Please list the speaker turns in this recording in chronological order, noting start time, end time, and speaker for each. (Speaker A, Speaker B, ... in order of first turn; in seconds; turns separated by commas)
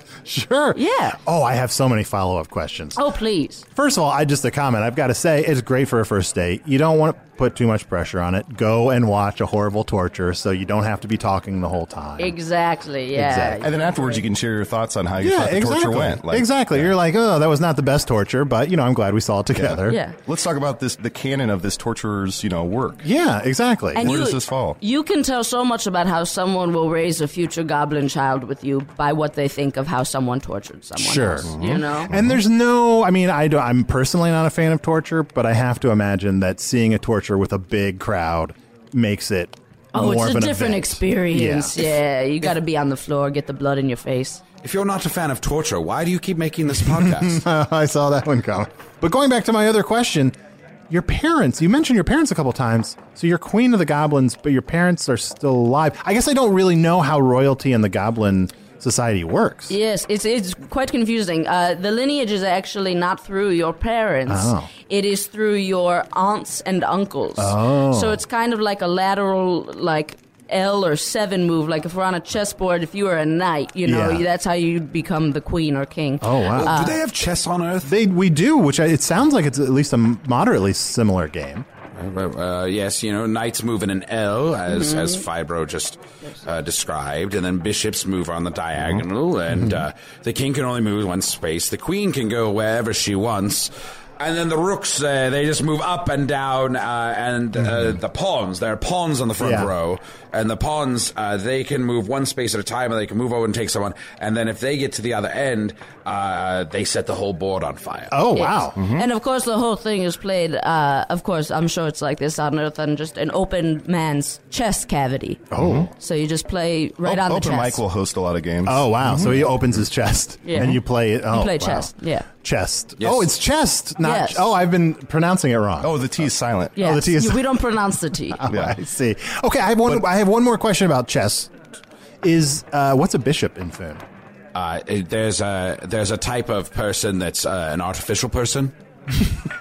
Speaker A: 0.3-3.0, Speaker B: 0.7-1.2, Speaker B: 3.0-3.6, Speaker A: 3.8-12.4, Speaker B: 12.2-14.2, Speaker A: 13.1-13.6, Speaker C: 13.6-16.9, Speaker A: 15.2-20.0, Speaker C: 19.5-23.1, Speaker B: 19.9-20.2, Speaker A: 23.0-24.1, Speaker B: 23.9-32.1, Speaker C: 24.0-24.8, Speaker A: 31.0-41.9, Speaker C: 31.5-32.4, Speaker B: 39.9-44.4, Speaker D: 44.6-47.4, Speaker A: 46.8-50.4, Speaker A: 50.9-59.8, Speaker B: 59.7-77.0, Speaker A: 64.3-64.7, Speaker A: 67.4-68.2, Speaker A: 73.8-74.3, Speaker A: 76.2-76.9, Speaker D: 76.5-77.9, Speaker A: 77.8-81.7, Speaker D: 82.0-108.1, Speaker B: 84.7-85.2, Speaker A: 89.5-89.8, Speaker A: 99.4-99.7, Speaker A: 108.1-108.8, Speaker B: 108.3-115.5, Speaker C: 108.8-109.1, Speaker A: 115.5-115.9, Speaker C: 115.5-115.9, Speaker B: 116.0-117.8, Speaker C: 117.0-119.8, Speaker A: 118.6-127.6, Speaker B: 120.4-122.3, Speaker D: 123.0-123.3, Speaker B: 124.0-124.5, Speaker C: 125.8-126.8, Speaker B: 126.8-128.4, Speaker A: 128.3-131.5, Speaker C: 128.5-128.8, Speaker A: 132.2-134.0, Speaker D: 134.6-138.7